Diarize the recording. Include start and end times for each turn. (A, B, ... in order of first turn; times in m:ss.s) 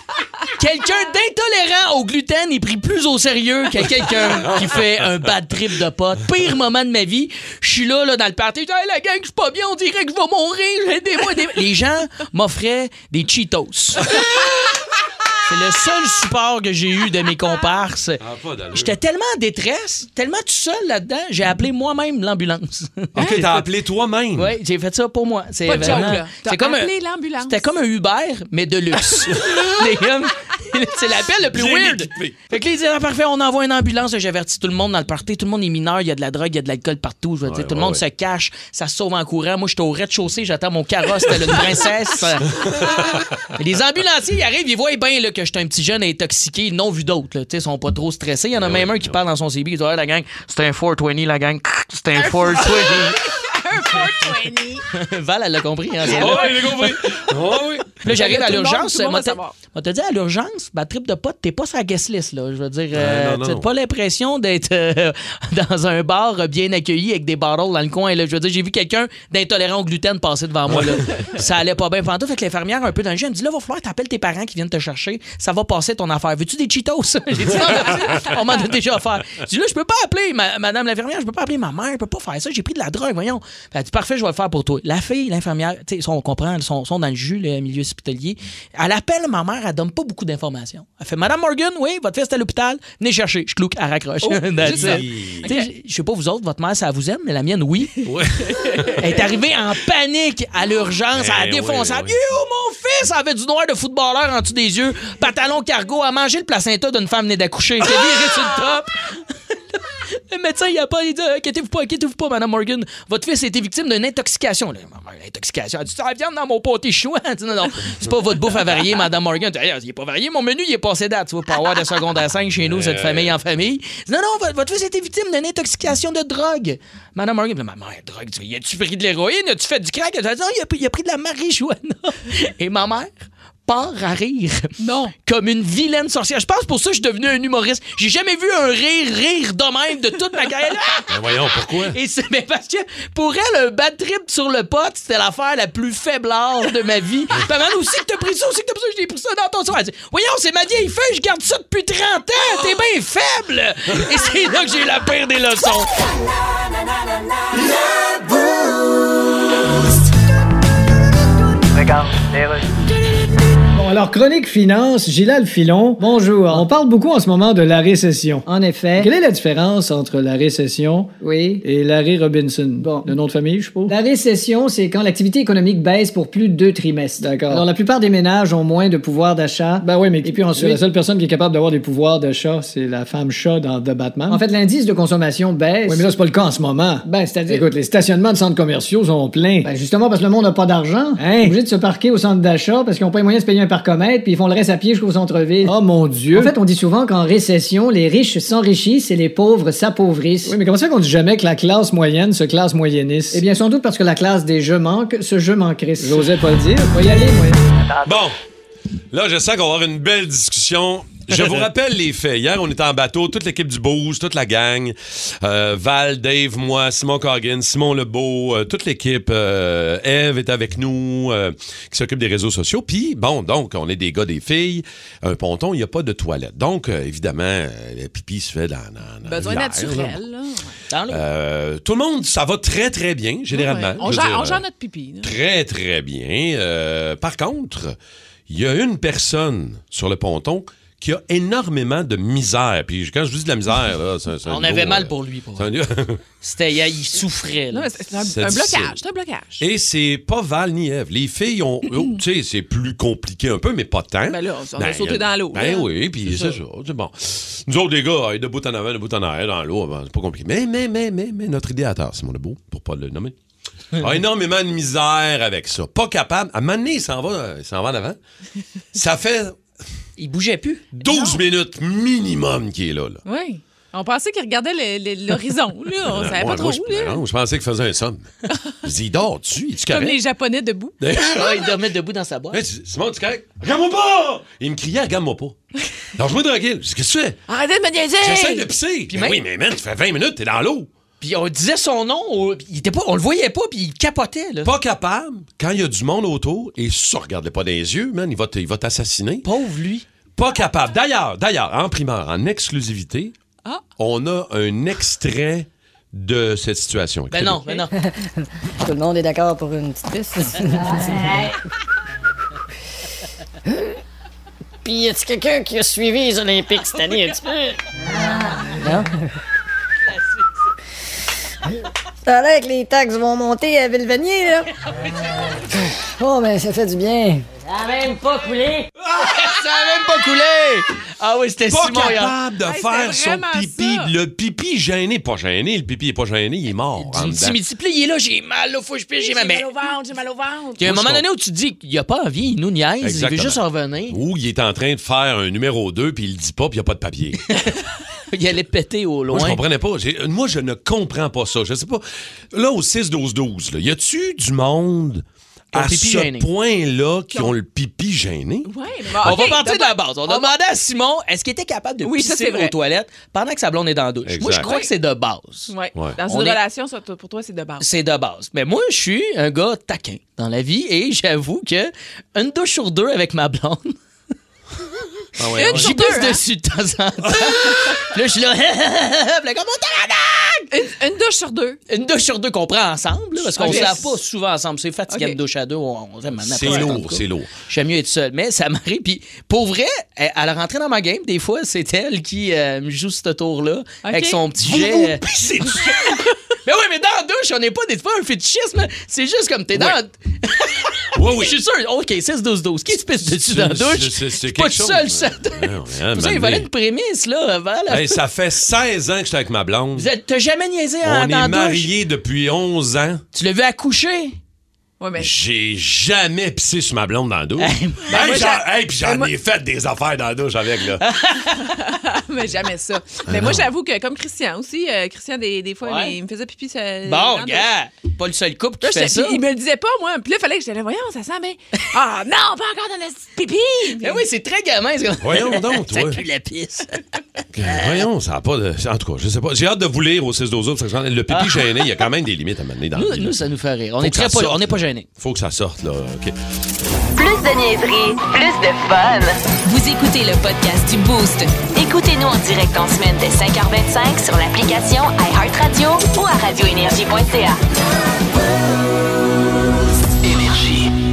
0:00.6-0:14.2 A
0:15.5-0:18.2 A
0:18.2-0:19.0 B
0:18.7-0:23.6 A
0:23.2-0:24.6 B
0:23.2-0:23.5 C
0:24.4-0:42.9 A
0:25.6-0:27.6 C
0:25.7-0:26.2 B
0:31.5-0:32.4 B
0:37.4-0:38.0 B
0:42.6-0:43.3 B
0:43.6-0:53.2 A
0:48.6-0:49.2 B
0:52.2-0:54.8 C
0:54.9-0:56.6 A
0:56.0-0:56.9 C
0:56.1-0:58.0 B
0:58.0-1:38.0 A
0:58.0-0:59.6 C
1:02.9-1:03.7 B
1:10.7-1:11.3 B
1:17.5-1:18.4 C
1:34.2-1:35.7 C
1:34.6-1:35.5 B
1:38.0-1:39.0 B
1:38.5-1:39.0 C
1:39.0-2:14.7 A
1:41.2-1:42.2 B
2:02.6-2:03.4 B
2:14.8-2:15.1 C
2:15.2-2:35.9 A
2:21.1-2:22.0 B
2:43.7-2:54.1 D
2:43.9-2:45.6 E
2:46.1-2:48.2 E
2:49.1-2:49.5 E
2:53.9-3:00.8 E
2:57.1-2:57.8 D
2:59.5-3:09.9 D
3:02.9-3:03.2 E
3:04.3-3:08.7 E
3:09.6-3:20.5 E
3:11.0-3:11.8 D
3:15.3-3:16.7 D
3:20.4-3:23.6 D
3:21.3-3:22.4 E
3:23.3-3:27.5 E
3:25.7-3:27.5 D
3:28.0-3:28.4 B
3:29.1-3:50.2 B
3:49.3-3:50.7 C
3:50.9-3:51.2 A
3:51.1-3:54.6 B
3:53.5-3:55.3 C
3:55.2-3:58.0 B
3:58.5-4:06.2 B
4:04.5-4:05.7 A
4:06.4-4:07.9 A
4:07.7-4:09.6 C
4:08.3-4:09.0 B
4:09.6-4:23.3 B
4:14.3-4:15.9 C
4:24.0-4:28.2 B
4:28.9-4:29.6 B
4:30.2-4:31.0 A
4:31.0-4:33.2 B
4:31.0-4:31.4 C
4:33.3-4:37.2 C
4:36.0-4:38.3 B
4:38.8-4:40.2 B
4:39.9-4:41.0 C
4:41.0-4:41.7 B
4:41.3-4:42.6 A
4:42.5-4:45.6 B
4:46.2-4:47.4 B
4:47.5-4:48.7 C
4:48.2-4:50.9 B
4:49.1-4:49.4 A
4:51.2-4:54.7 A
4:54.6-4:59.5 B
4:59.4-5:00.0 A
5:00.4-5:03.3 B
5:04.0-5:07.6 B
5:07.3-5:07.9 A
5:08.0-5:08.3 F
5:08.8-5:11.6 F
5:14.8-5:19.3 F
5:22.2-5:24.7 F
5:25.6-5:28.9 F
5:29.1-5:32.3 A
5:31.7-5:37.6 B
5:32.6-5:34.1 C
5:37.0-5:39.7 A
5:39.2-5:40.8 C
5:40.8-5:44.2 A
5:40.8-5:41.2 B
5:43.0-5:47.4 B
5:47.5-5:47.8 A
5:48.3-5:49.6 A
5:49.3-5:58.7 B
5:55.7-5:56.5 A
5:58.7-6:00.5 C
5:59.2-6:05.7 A
6:02.0-6:02.7 C
6:04.3-6:04.7 B
6:05.7-6:07.9 C
6:06.3-6:06.6 A
6:07.8-6:14.0 A
6:15.4-6:16.0 B
6:15.6-6:16.4 C
6:15.7-6:20.7 A
6:20.7-6:21.8 C
6:21.9-6:35.2 A
6:23.5-6:24.0 B
6:23.6-6:24.2 C
6:25.1-6:25.4 C
6:26.4-6:27.5 B
6:34.0-6:34.4 C
6:34.6-6:35.9 B
6:35.9-6:36.1 C
6:36.6-6:48.2 A
6:41.1-6:41.6 B
6:43.3-6:46.7 B
6:47.9-6:50.1 B
6:50.0-6:51.9 A
6:51.0-6:53.2 B
6:53.3-6:54.4 A
6:55.0-6:55.3 C
6:55.2-7:01.0 B
6:57.6-6:58.5 A
6:58.1-6:59.3 C
7:01.0-7:01.7 A
7:01.5-7:07.7 C
7:03.3-7:03.7 B
7:05.8-7:06.2 A
7:07.1-7:09.4 A
7:08.8-7:14.2 C
7:14.0-7:17.0 A
7:15.2-7:16.2 B
7:17.5-7:23.4 B
7:17.7-7:18.1 A
7:21.3-7:21.8 A
7:23.0-7:25.1 A
7:24.0-7:26.3 B
7:27.2-7:37.6 G
7:40.3-7:40.6 G